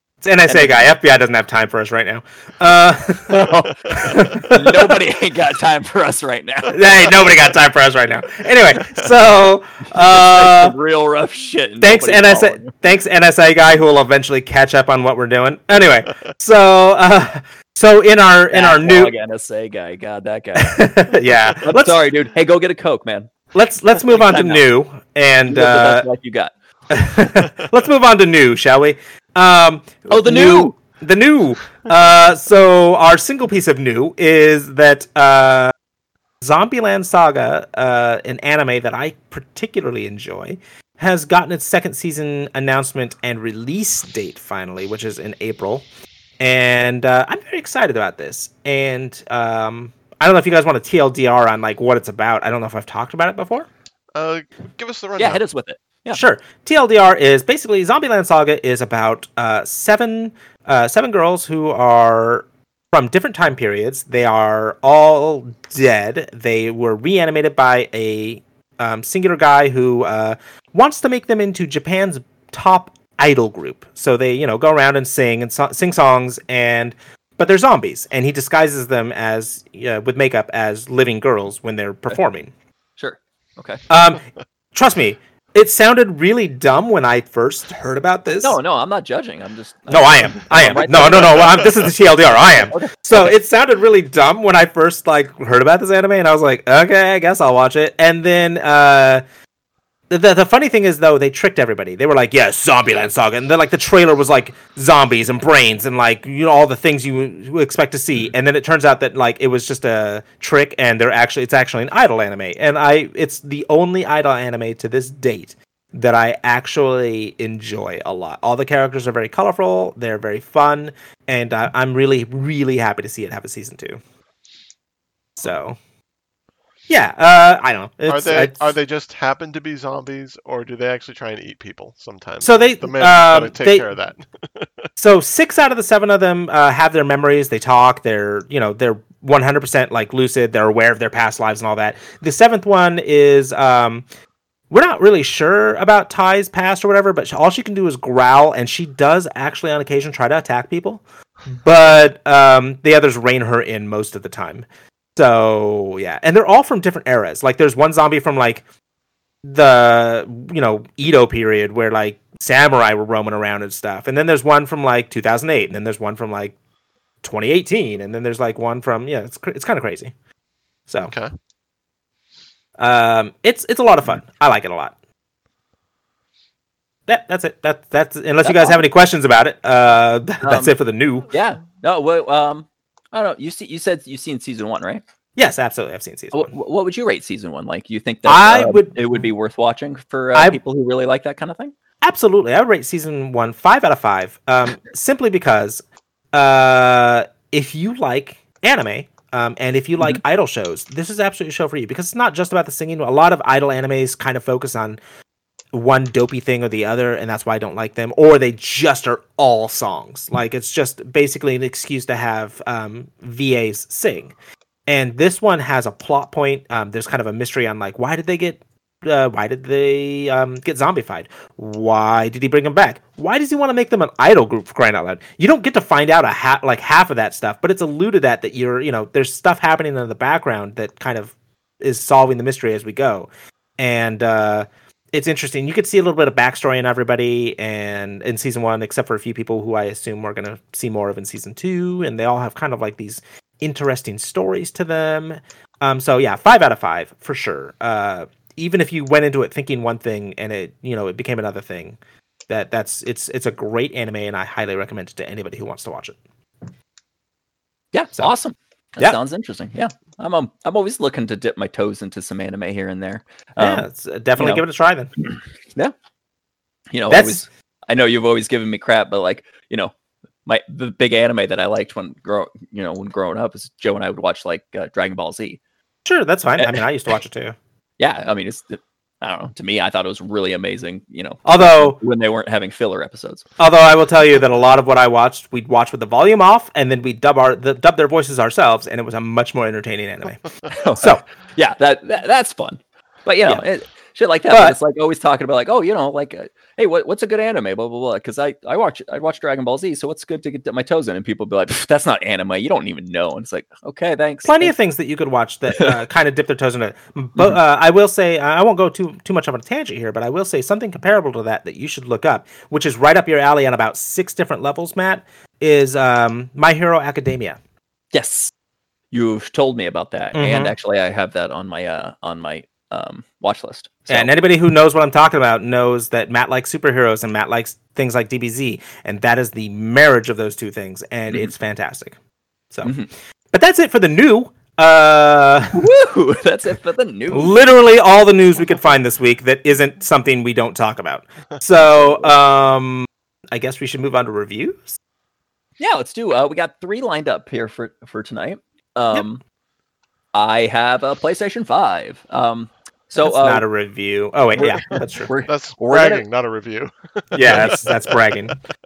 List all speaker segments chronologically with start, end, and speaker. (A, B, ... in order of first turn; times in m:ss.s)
0:00.2-0:05.0 A
0:00.4-0:00.9 B
0:03.3-0:07.3 B
0:06.7-0:10.7 A
0:09.9-0:12.7 B
0:11.8-0:19.1 A
0:18.5-0:21.0 B
0:20.6-0:22.0 A
0:21.5-0:23.3 B
0:23.5-0:26.1 A
0:24.0-0:24.6 B
0:25.5-0:26.5 B
0:26.9-0:35.7 A
0:30.1-0:30.8 B
0:36.4-0:45.8 A
0:46.4-0:53.7 A
0:54.1-0:55.4 C
0:55.2-0:56.2 B
0:56.1-1:22.5 A
1:23.0-1:23.8 B
1:23.9-1:24.2 A
1:24.7-1:28.6 A
1:28.4-1:31.7 B
1:29.9-1:39.2 A
1:32.3-1:33.3 B
1:40.1-2:04.0 A
2:05.4-2:05.8 A
2:06.9-2:08.6 A
2:08.1-2:14.9 C
2:12.4-2:13.8 A
2:15.0-2:24.0 A
2:24.7-2:38.6 A
2:39.4-2:46.5 A
2:47.2-2:50.1 A
2:51.1-2:51.3 C
2:52.8-2:54.9 A
2:57.1-3:01.3 A
2:58.4-2:58.8 B
3:00.4-3:00.7 B
3:01.3-3:05.0 B
3:05.4-3:06.5 A
3:06.3-3:11.7 B
3:08.2-3:09.3 A
3:12.0-3:25.0 A
3:25.7-3:34.3 A
3:34.9-4:12.0 A
4:12.5-4:16.2 A
4:17.9-4:23.8 B
4:23.6-4:25.1 A
4:24.4-4:24.6 B
4:25.2-4:25.9 B
4:26.9-4:29.9 B
4:27.1-4:27.4 A
4:30.4-4:35.6 B
4:36.0-4:37.6 A
4:36.6-4:36.8 B
4:38.0-4:43.4 B
4:41.4-4:42.0 A
4:43.6-4:50.4 A
4:50.7-5:04.7 B
4:51.0-4:51.2 A
4:54.5-4:54.8 A
5:04.4-5:17.6 A
5:18.1-5:18.5 B
5:19.1-5:24.3 B
5:20.3-5:20.7 A
5:24.1-5:32.2 A
5:32.8-5:33.1 B
5:33.5-5:35.8 A
5:35.7-5:37.5 B
5:37.3-5:45.0 A
5:42.0-5:42.3 B
5:45.8-5:49.4 B
5:50.3-5:53.6 B
5:53.2-5:55.3 A
5:54.6-5:56.2 B
5:55.5-5:58.5 C
5:57.3-5:58.6 A